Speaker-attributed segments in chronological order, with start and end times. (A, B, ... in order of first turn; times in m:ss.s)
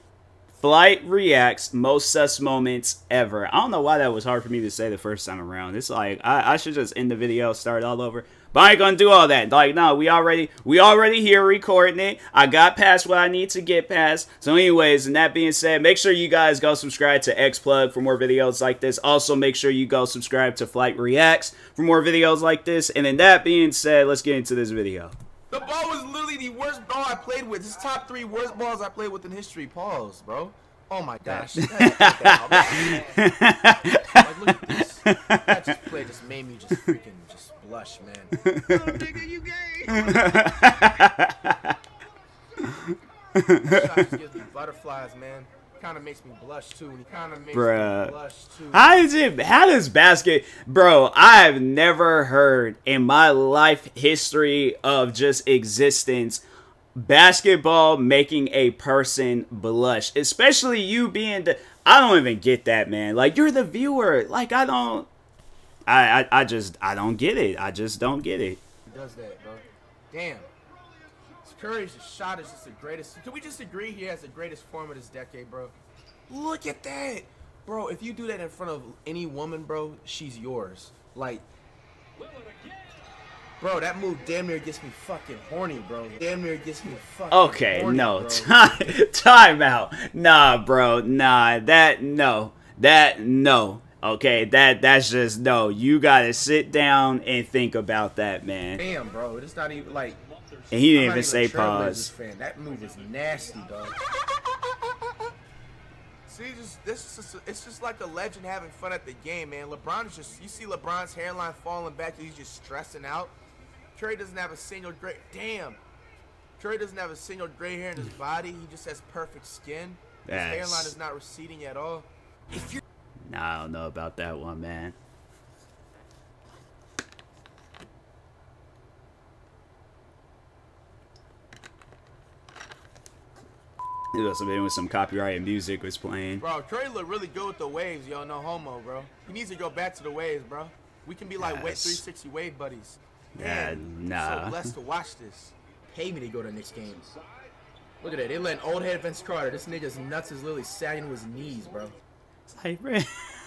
0:00.6-0:25.1 A
0:25.5-0:33.1 B
0:31.3-0:35.5 A
0:34.1-0:40.4 B
0:38.5-0:39.0 A
0:39.9-0:41.7 A
0:42.6-0:44.0 A
0:43.6-0:49.0 B
0:47.5-0:48.1 A
0:48.7-0:56.4 A
0:56.9-1:05.1 A
1:05.9-1:08.6 A
1:08.9-1:10.5 B
1:11.4-1:15.8 B
1:16.3-1:21.4 B
1:23.6-1:28.5 B
1:27.3-1:38.8 A
1:38.8-1:40.2 B
1:40.7-1:42.1 A
1:40.9-1:44.0 B
1:46.3-1:53.3 B
1:53.9-1:55.8 B
1:56.6-2:02.8 B
2:00.2-2:00.9 A
2:03.3-2:05.0 A
2:14.1-2:16.4 A
2:16.4-2:27.1 B
2:21.4-2:22.0 A
2:23.4-2:24.7 A
2:28.0-2:31.9 B
2:32.5-2:33.1 A